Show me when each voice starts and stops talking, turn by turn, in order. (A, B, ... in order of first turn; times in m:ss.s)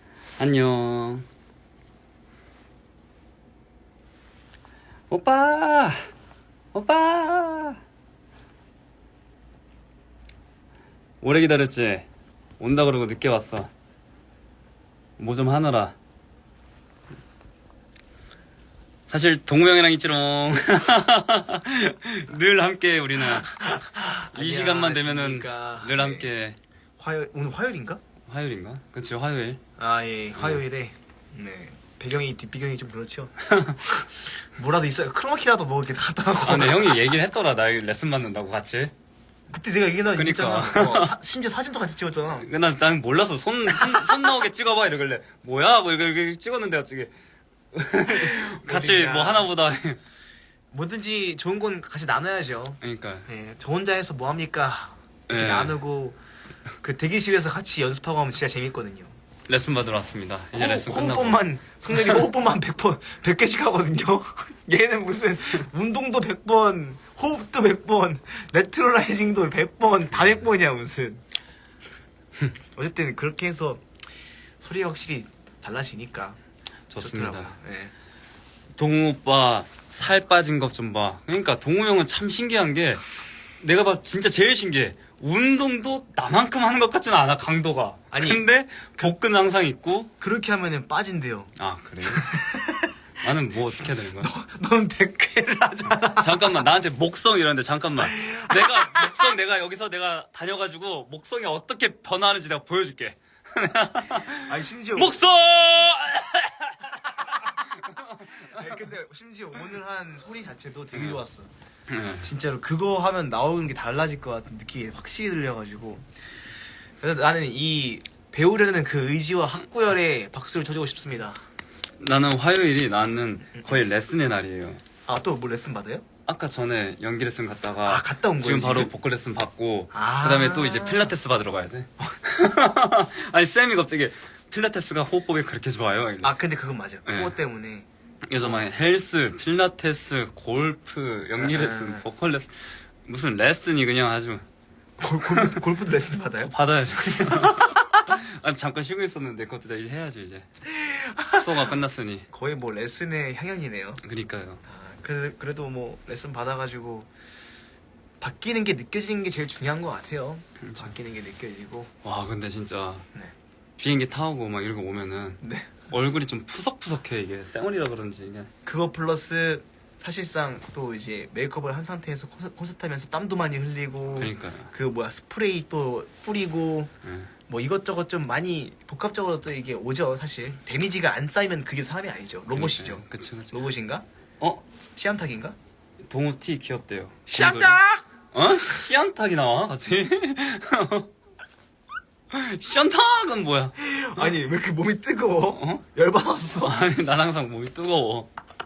0:00.4-0:01.2 A
0:05.1-0:06.0 A
0:06.7-0:07.8 A
0:11.2-0:12.1 A
0:12.6-0:13.7 A
0:15.2-0:15.9 A
0:19.1-0:23.5 A
0:23.2-0:26.3 B
0:24.3-0:26.6 A
0:27.0-0:28.0 B
0:28.3-0:29.6 A
0:29.8-0:37.0 B
0:30.4-0:30.6 A
0:33.5-0:33.8 A
0:36.4-0:38.9 A
0:39.5-0:42.5 B
0:40.2-0:41.1 A
0:42.4-0:47.1 A
0:43.7-0:44.3 B
0:47.7-0:50.0 A
0:48.0-0:49.5 B
0:50.7-0:56.2 B
0:52.8-0:53.3 A
0:55.3-0:55.8 A
0:56.8-0:59.1 B
0:59.5-1:01.4 A
1:00.5-1:11.2 B
1:01.9-1:02.2 A
1:12.8-1:13.8 B
1:14.6-1:16.4 B
1:16.9-1:17.5 A
1:17.0-1:17.9 B
1:18.8-1:23.0 A
1:23.6-1:30.1 A
1:28.1-1:28.4 B
1:30.2-1:31.5 B
1:31.6-1:32.3 A
1:32.0-1:32.9 B
1:33.2-1:34.3 A
1:34.0-1:36.6 B
1:35.9-1:48.7 A
1:38.0-1:39.3 B
1:44.4-1:45.2 B
1:48.5-1:51.5 B
1:51.9-1:52.3 A
1:52.2-1:56.1 B
1:57.0-2:01.4 B
2:02.0-2:04.8 A
2:03.6-2:03.8 B
2:05.0-2:06.0 B
2:06.3-2:16.3 A
2:07.8-2:08.9 B
2:09.9-2:11.1 B
2:16.2-2:17.9 B
2:17.0-2:17.3 A
2:18.2-2:24.4 A
2:18.4-2:18.6 B
2:21.4-2:22.0 B
2:25.0-2:27.8 B
2:25.3-2:25.6 A
2:26.4-2:30.5 A
2:30.6-2:31.7 B
2:31.3-2:32.3 A
2:32.3-2:34.0 B
2:34.0-2:34.6 A
2:34.6-2:37.1 B
2:38.2-2:41.9 B
2:40.6-2:40.9 A
2:42.0-2:43.0 A
2:43.8-2:48.5 A
2:45.4-2:45.9 B
2:48.6-2:56.9 B
2:54.1-2:54.7 A
2:57.0-2:57.3 A
2:57.5-3:04.0 B
3:02.5-3:03.6 A
3:05.0-3:05.6 B
3:06.1-3:07.8 A
3:07.3-3:08.0 B
3:08.3-3:11.1 A
3:12.3-3:14.3 A
3:13.8-3:16.8 B
3:15.5-3:15.8 A
3:16.6-3:18.3 A